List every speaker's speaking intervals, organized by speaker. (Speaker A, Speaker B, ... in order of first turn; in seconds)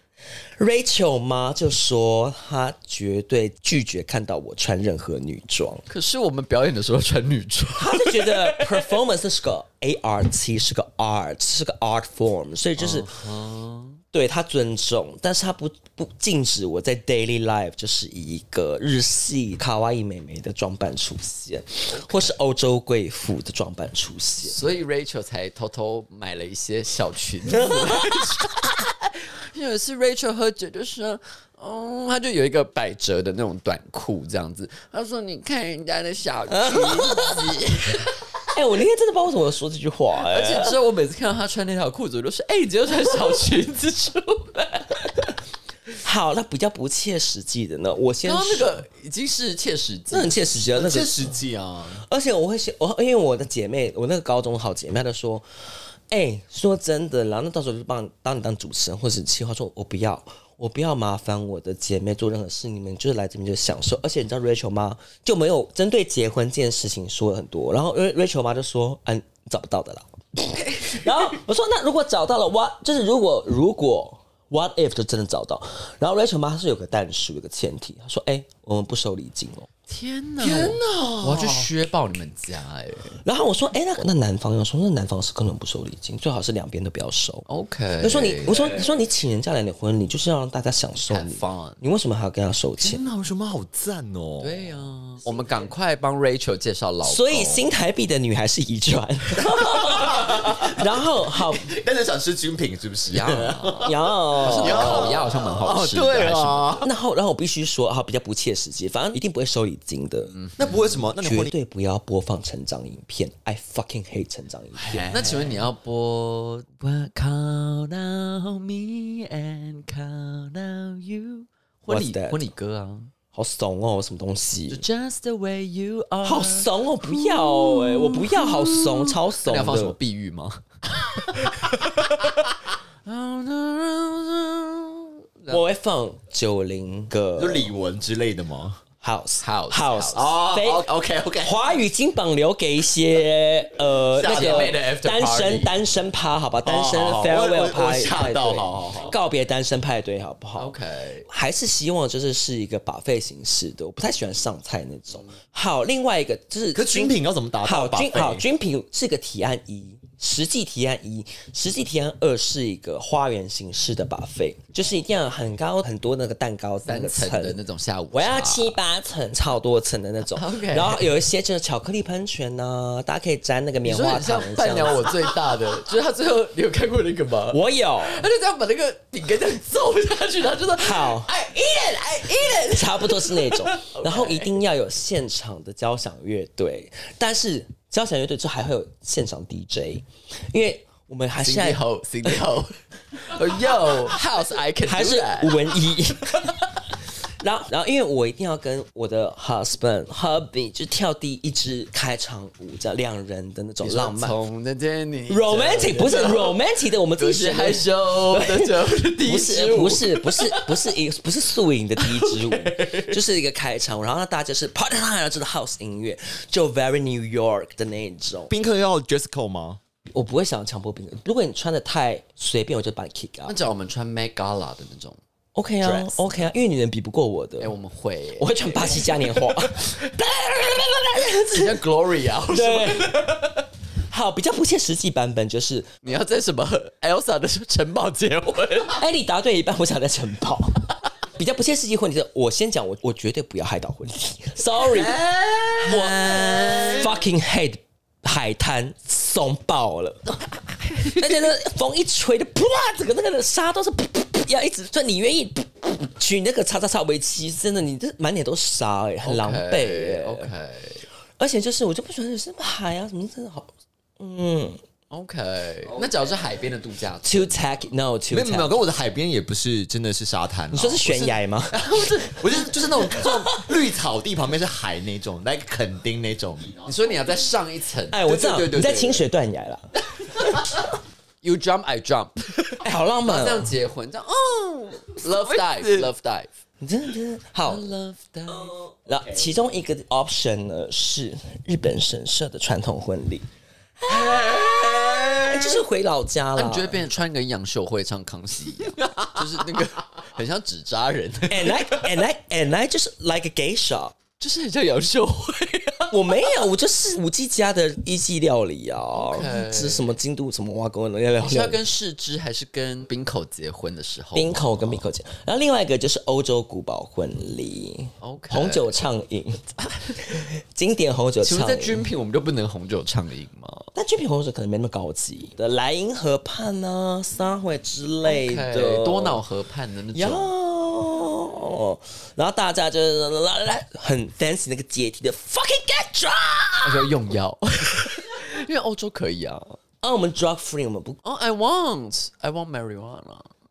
Speaker A: 0.6-5.8, 7.8-13.1, 14.1-24.6, 27.5-28.5, 36.5-37.6, 38.5-40.7, 46.0-48.8, 50.1-51.2, 52.0-55.5, 56.1-79.7, 83.2-87.4, 88.0-93.0, 97.0-101.7, 103.8-105.1, 106.8-110.3, 111.2-115.1, 121.9-122.5, 123.3-124.8, 126.2-129.9, 135.5-137.7, 139.0-140.9, 141.4-150.7, 151.3-167.6, 168.1-175.3, 177.5-178.2, 180.8-181.3, 182.6-192.4, 194.8-196.6, 197.4-204.4, 205.3-218.5, 220.1-223.6, 225.5-227.7, 228.4-231.8, 232.5-233.5, 234.1-235.9, 238.9-245.2, 245.8-250.3, 251.0-260.5, 261.4-264.8, 267.2-268.8, 270.7-273.6, 278.1-279.9, 282.8-283.7, 286.8-287.9, 288.6-293.4, 294.0-297.0, 301.5-304.1, 306.1-311.8, 314.3-319.6, 320.2-322.0, 323.9-329.4, 330.1-337.1, 340.0-341.2
Speaker B: 5.9-8.9, 12.8-14.0, 21.9-22.3, 24.4-38.2, 40.3-45.3, 48.2-50.6, 79.9-83.2, 87.5-88.7, 91.1-91.8, 94.4-97.6, 103.1-106.8, 110.3-110.9, 114.9-123.1, 124.7-132.5, 133.0-135.6, 139.4-140.3, 144.2-145.7, 150.6-151.3, 166.8-168.8, 170.3-171.1, 173.8-184.5, 191.4-195.8, 203.8-206.6, 207.2-210.8, 212.0-213.2, 223.5-225.2, 225.8-226.5, 227.6-230.0, 231.5-233.4, 236.0-239.0, 245.7-247.2, 250.9-251.3, 259.2-261.0, 265.1-267.7, 276.8-278.2, 281.4-286.5, 287.6-288.8, 294.1-295.8, 296.6-302.0, 304.4-306.3, 309.1-310.1, 311.4-315.0, 318.2-318.9, 319.8-320.2, 321.4-323.9, 328.2-330.5, 336.8-339.8, 341.2-343.5
Speaker C: 50.7-52.0, 80.4-81.7, 92.8-94.8, 99.7-106.9, 110.6-111.5, 114.8-115.6, 137.3-138.8, 140.1-141.6, 144.1-144.7, 146.6-149.1, 156.7-158.4, 218.5-219.8, 245.2-245.9, 268.3-276.8, 278.2-279.2, 285.2-286.1, 299.0-299.6